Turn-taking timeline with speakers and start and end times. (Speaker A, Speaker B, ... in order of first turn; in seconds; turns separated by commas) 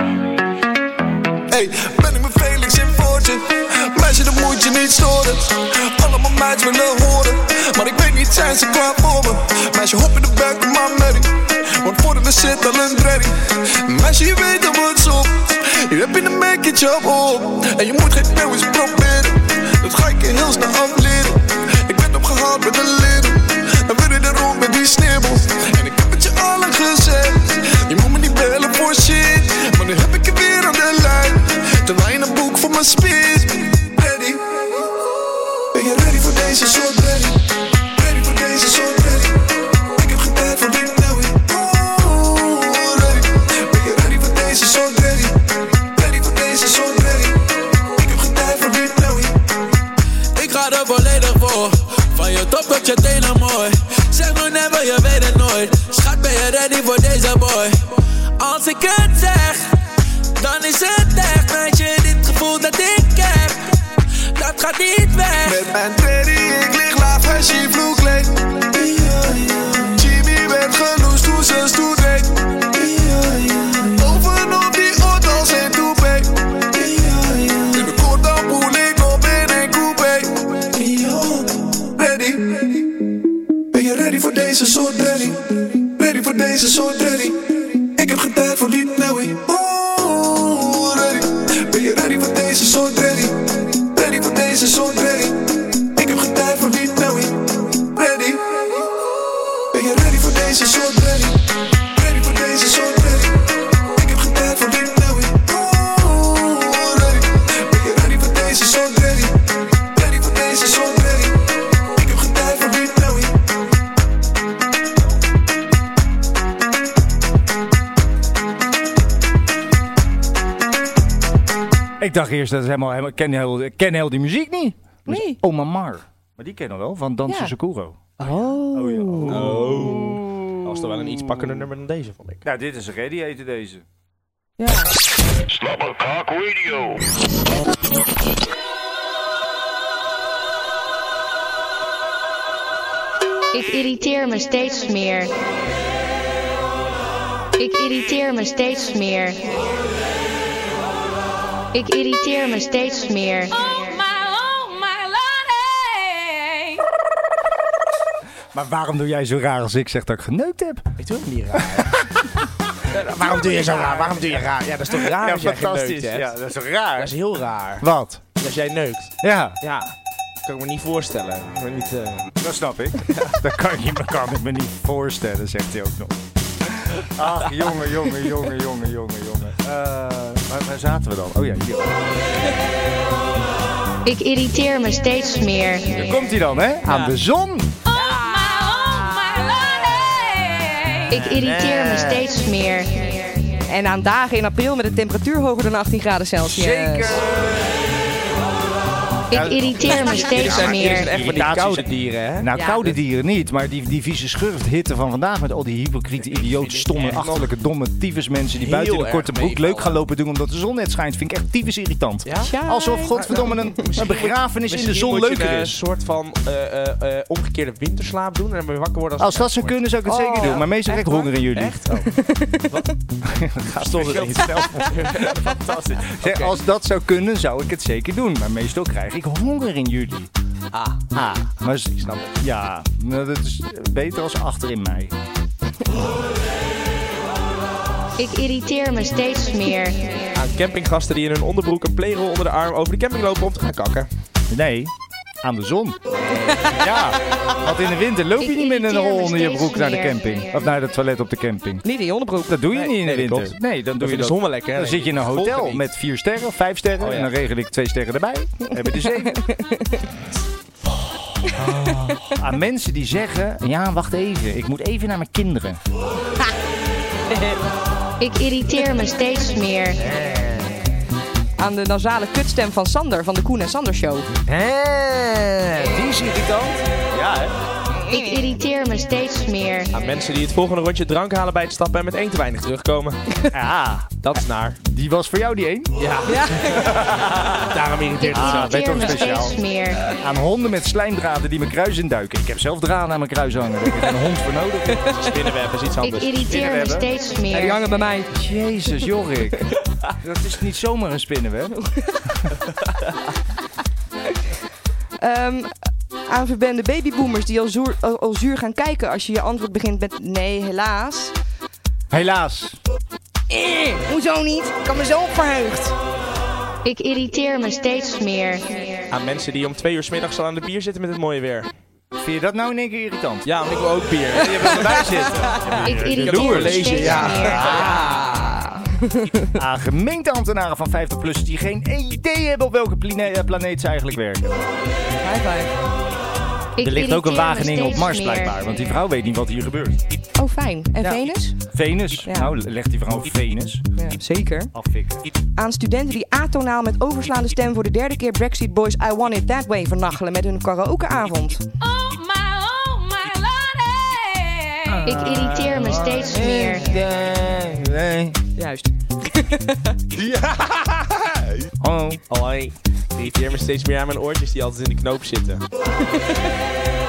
Speaker A: 1.5-34.9, Speaker A: 35.7-49.4, Speaker B: 50.4-57.7, Speaker B: 58.4-59.7, Speaker B: 60.4-63.6, Speaker B: 64.4-65.4, Speaker A: 65.4-83.0, Speaker A: 83.7-98.9, Speaker A: 99.7-109.4, Speaker A: 109.9-113.4, Speaker C: 122.0-130.2, Speaker D: 125.1-125.4, Speaker D: 127.3-127.5, Speaker D: 128.2-130.5, Speaker E: 129.3-132.5, Speaker C: 130.7-131.6, Speaker C: 132.4-133.8, Speaker D: 134.6-134.9, Speaker F: 143.5-145.3, Speaker F: 147.6-149.4, Speaker F: 151.8-154.0, Speaker C: 158.5-160.9, Speaker E: 161.0-162.1, Speaker C: 161.6-162.3, Speaker E: 162.9-166.3, Speaker C: 163.2-167.2, Speaker E: 166.9-169.9, Speaker C: 167.8-168.2, Speaker C: 169.2-169.6, Speaker E: 170.5-172.3, Speaker C: 172.4-182.3, Speaker E: 173.1-173.3, Speaker F: 184.1-185.8, Speaker C: 185.9-187.8, Speaker D: 186.9-187.1, Speaker D: 187.9-188.8, Speaker C: 191.1-192.4, Speaker F: 191.2-191.6, Speaker F: 192.4-192.8, Speaker D: 193.7-197.2, Speaker C: 196.4-197.8, Speaker C: 199.3-215.8, Speaker F: 199.3-200.4, Speaker E: 199.8-202.5, Speaker D: 202.5-202.8, Speaker E: 206.2-207.5, Speaker E: 208.6-210.0, Speaker E: 212.2-212.5, Speaker D: 212.4-213.8, Speaker E: 213.1-219.8, Speaker C: 219.2-221.8, Speaker D: 220.1-221.2, Speaker E: 220.4-222.9, Speaker D: 222.1-222.7, Speaker C: 223.2-230.3, Speaker E: 223.8-225.6, Speaker E: 226.1-226.6, Speaker E: 230.7-231.1, Speaker C: 231.1-235.1, Speaker E: 232.0-232.3, Speaker F: 238.2-239.9, Speaker E: 240.3-244.1, Speaker C: 244.5-244.9, Speaker C: 245.4-246.0, Speaker E: 246.1-246.9, Speaker C: 246.7-251.8, Speaker F: 248.8-249.7, Speaker D: 251.8-252.6, Speaker C: 252.5-259.4, Speaker E: 252.7-255.9, Speaker E: 257.0-257.3, Speaker D: 258.9-260.0, Speaker C: 261.5-265.8, Speaker F: 268.2-269.9, Speaker C: 270.0-270.8, Speaker D: 271.6-274.3, Speaker C: 274.5-277.6, Speaker D: 277.9-278.5, Speaker F: 278.3-279.8, Speaker E: 279.9-283.4, Speaker C: 283.5-284.3, Speaker E: 284.2-284.8, Speaker C: 284.8-286.0, Speaker E: 286.0-289.2, Speaker D: 286.3-286.8, Speaker C: 286.7-287.8, Speaker C: 288.3-295.2, Speaker F: 288.7-289.8, Speaker E: 295.1-296.8, Speaker F: 296.1-297.5, Speaker C: 296.2-297.1, Speaker D: 297.5-298.3, Speaker C: 298.3-301.8, Speaker D: 305.2-305.7, Speaker D: 306.3-311.3, Speaker C: 312.1-312.8, Speaker D: 313.5-315.9, Speaker F: 316.9-318.6, Speaker E: 319.1-321.7, Speaker C: 322.2-323.5, Speaker E: 323.4-328.5, Speaker C: 324.4-328.2, Speaker D: 327.6-329.5, Speaker C: 329.6-334.7, Speaker D: 335.2-335.7, Speaker C: 336.8-340.0, Speaker F: 336.8-338.4, Speaker D: 340.4-341.6, Speaker C: 341.0-343.9, Speaker D: 342.2-342.5, Speaker D: 344.0-344.7, Speaker C: 344.7-345.2, Speaker D: 345.6-351.7, Speaker F: 352.7-353.4, Speaker C: 354.9-358.4, Speaker F: 355.1-356.7, Speaker D: 358.6-359.9, Speaker C: 360.2-361.2, Speaker C: 361.8-362.2, Speaker E: 362.3-365.6